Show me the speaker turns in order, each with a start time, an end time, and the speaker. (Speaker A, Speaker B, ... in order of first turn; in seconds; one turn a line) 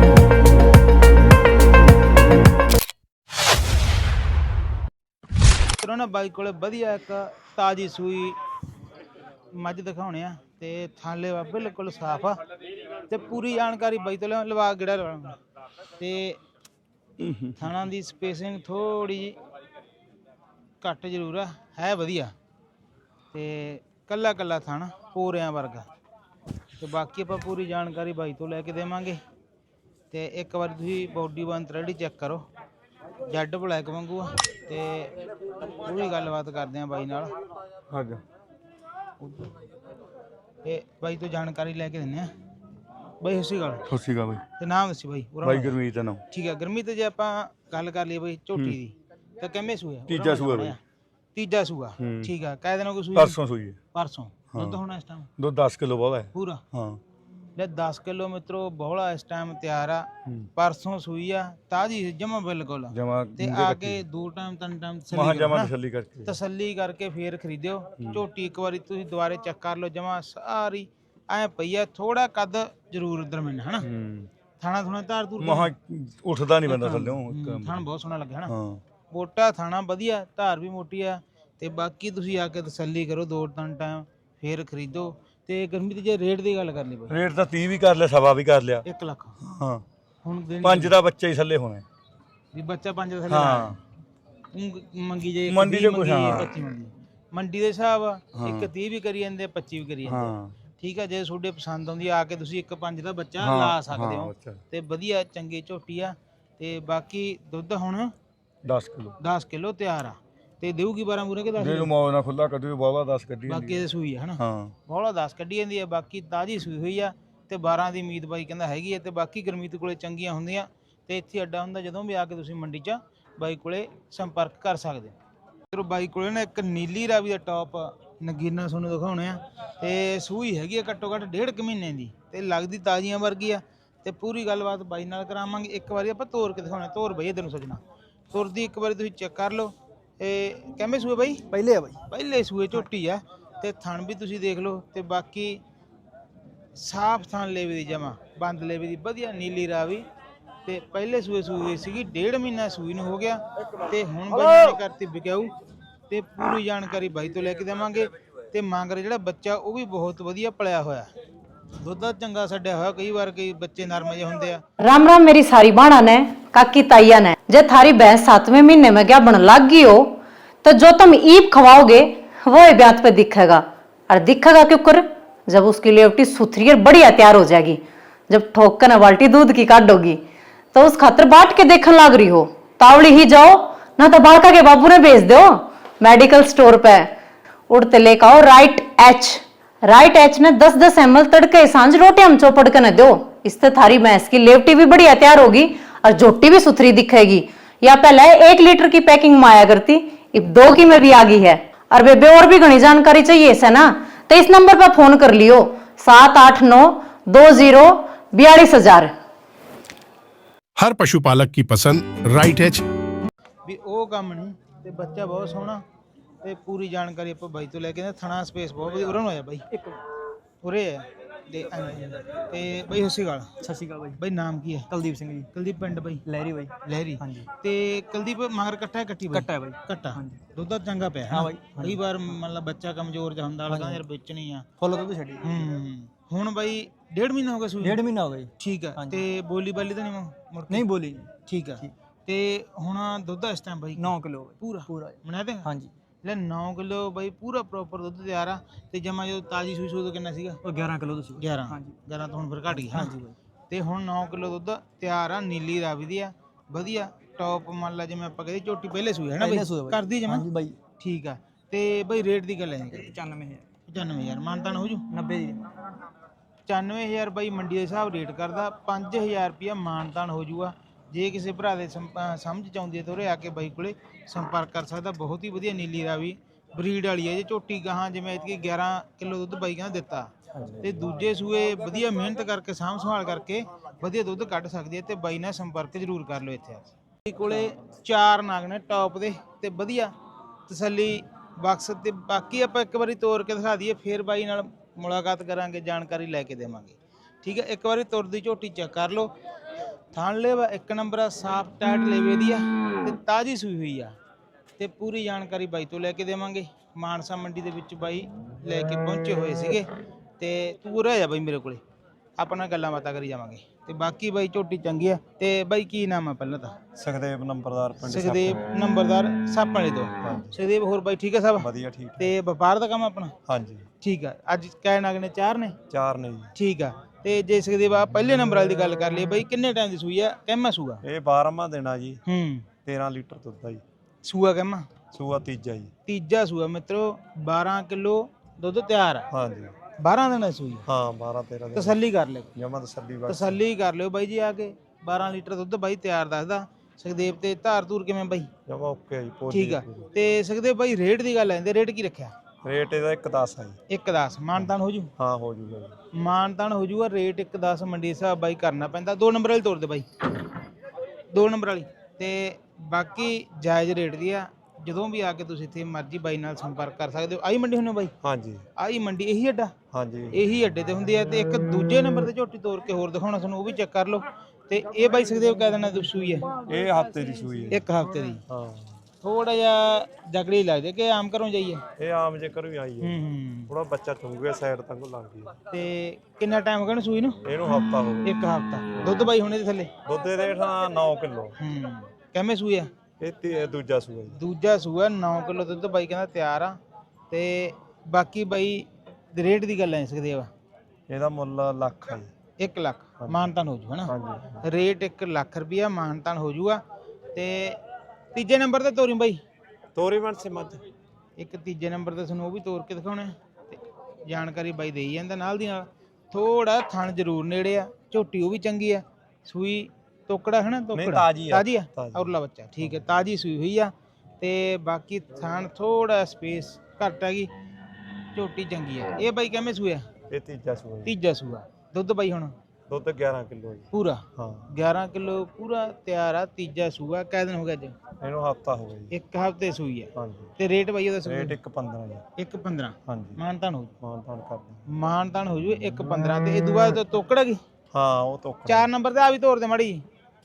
Speaker A: 5.8-8.4
Speaker A: 9.5-12.4
Speaker A: 13.1-15.4
Speaker A: 16.0-16.4
Speaker A: 17.6-19.4
Speaker A: 20.8-22.3
Speaker A: 23.3-25.9
Speaker A: 26.8-29.2
Speaker A: 30.1-32.5
Speaker A: 33.3-35.1
Speaker A: 35.7-37.3
Speaker B: 37.9-38.2
Speaker A: 39.2-39.5
Speaker A: 40.6-42.3
Speaker A: 43.2-43.8
Speaker B: 43.9-44.4
Speaker A: 44.6-50.8
Speaker B: 45.4-46.2
Speaker B: 50.1-50.8
Speaker A: 51.4-53.4
Speaker B: 52.0-52.3
Speaker B: 53.1-53.8
Speaker A: 53.9-55.3
Speaker B: 54.5-54.8
Speaker B: 55.4-57.0
Speaker A: 56.3-56.6
Speaker A: 57.6-65.7
Speaker B: 62.9-64.0
Speaker B: 65.1-66.3
Speaker A: 66.2-73.9
Speaker B: 73.8-74.3
Speaker A: 74.6-75.7
Speaker B: 75.4-77.8
Speaker A: 76.7-78.5
Speaker B: 78.5-78.8
Speaker A: 79.1-87.2
Speaker B: 87.1-88.8
Speaker A: 88.8-89.3
Speaker B: 89.4-89.8
Speaker A: 90.2-91.0
Speaker B: 90.6-91.8
Speaker A: 92.5-93.8
Speaker B: 93.3-93.8
Speaker A: 94.5-108.1
Speaker B: 95.5-96.5
Speaker B: 98.3-98.7
Speaker B: 100.0-100.5
Speaker B: 103.4-104.6
Speaker B: 108.6-109.2
Speaker A: 109.2-111.9
Speaker B: 111.6-113.8
Speaker A: 113.5-125.1
Speaker B: 114.4-114.7
Speaker A: 125.7-137.8
Speaker A: 138.3-141.4
Speaker C: 141.5-142.0
Speaker A: 142.1-145.6
Speaker A: 146.8-150.1
Speaker A: 150.7-155.5
Speaker A: 156.1-161.1
Speaker A: 161.8-164.6
Speaker D: 164.8-180.2
Speaker D: 180.7-187.1
Speaker D: 187.7-209.1
Speaker E: 210.8-212.8
Speaker A: 213.6-215.8
Speaker A: 216.4-219.6
Speaker C: 219.7-220.0
Speaker A: 220.6-223.5
Speaker C: 223.6-224.2
Speaker A: 224.2-224.9
Speaker C: 224.9-225.5
Speaker A: 225.5-226.2
Speaker C: 226.2-227.4
Speaker A: 226.8-234.7
Speaker C: 229.3-230.4
Speaker C: 231.3-232.0
Speaker C: 233.7-234.0
Speaker C: 234.8-235.6
Speaker A: 235.4-238.0
Speaker C: 237.8-239.2
Speaker A: 238.6-240.9
Speaker C: 240.7-241.9
Speaker A: 241.4-245.7
Speaker C: 244.0-245.9
Speaker A: 246.2-250.6
Speaker C: 250.6-252.0
Speaker A: 251.3-253.2
Speaker C: 252.7-253.3
Speaker A: 253.7-260.5
Speaker C: 259.4-260.8
Speaker A: 261.0-263.2
Speaker C: 262.9-263.6
Speaker A: 263.9-265.0
Speaker C: 265.1-265.6
Speaker A: 266.7-290.1
Speaker B: 280.5-281.1
Speaker A: 290.7-299.3
Speaker A: 300.1-304.1
Speaker A: 304.8-309.9
Speaker A: 310.4-311.8
Speaker A: 312.4-316.8
Speaker B: 316.9-318.6
Speaker A: 318.1-323.4
Speaker B: 320.2-320.6
Speaker B: 321.6-322.3
Speaker B: 323.5-323.9
Speaker A: 324.0-325.8
Speaker B: 325.9-326.5
Speaker A: 326.5-331.0
Speaker B: 331.0-332.2
Speaker A: 332.2-332.7
Speaker B: 332.8-333.8
Speaker A: 334.2-335.0
Speaker B: 335.1-335.9
Speaker A: 336.1-339.3
Speaker B: 339.3-339.8
Speaker A: 339.9-340.9
Speaker B: 340.9-341.9
Speaker A: 341.7-342.5
Speaker B: 342.6-343.6
Speaker A: 343.2-348.5
Speaker B: 348.7-350.1
Speaker A: 349.5-352.3
Speaker B: 352.6-353.8
Speaker A: 353.9-355.1
Speaker B: 354.6-356.0
Speaker A: 356.1-360.1
Speaker A: 361.3-368.1
Speaker B: 368.2-368.6
Speaker A: 368.8-369.7
Speaker B: 369.9-370.3
Speaker A: 370.3-376.5
Speaker B: 376.7-377.8
Speaker A: 377.7-378.4
Speaker B: 378.5-379.0
Speaker A: 379.2-381.8
Speaker B: 382.0-383.2
Speaker A: 383.0-383.7
Speaker B: 383.7-385.6
Speaker A: 385.7-387.4
Speaker B: 387.4-388.3
Speaker A: 388.2-389.9
Speaker B: 390.0-391.5
Speaker A: 391.6-392.9
Speaker B: 393.2-394.4
Speaker A: 394.3-396.8
Speaker A: 397.3-400.5
Speaker B: 401.1-402.3
Speaker A: 402.6-406.8
Speaker B: 404.1-404.6
Speaker A: 407.3-407.8
Speaker A: 408.3-409.4
Speaker B: 409.9-410.8
Speaker A: 411.4-427.5
Speaker B: 420.9-423.1
Speaker A: 428.3-430.1
Speaker B: 430.3-431.1
Speaker A: 431.0-432.5
Speaker B: 432.9-434.7
Speaker A: 433.9-438.0
Speaker B: 438.2-439.1
Speaker A: 439.1-441.6
Speaker B: 440.1-440.5
Speaker B: 441.2-442.2
Speaker A: 442.4-443.9
Speaker B: 443.1-443.4
Speaker B: 444.0-444.8
Speaker A: 444.9-447.6
Speaker B: 447.9-448.9
Speaker A: 448.6-450.0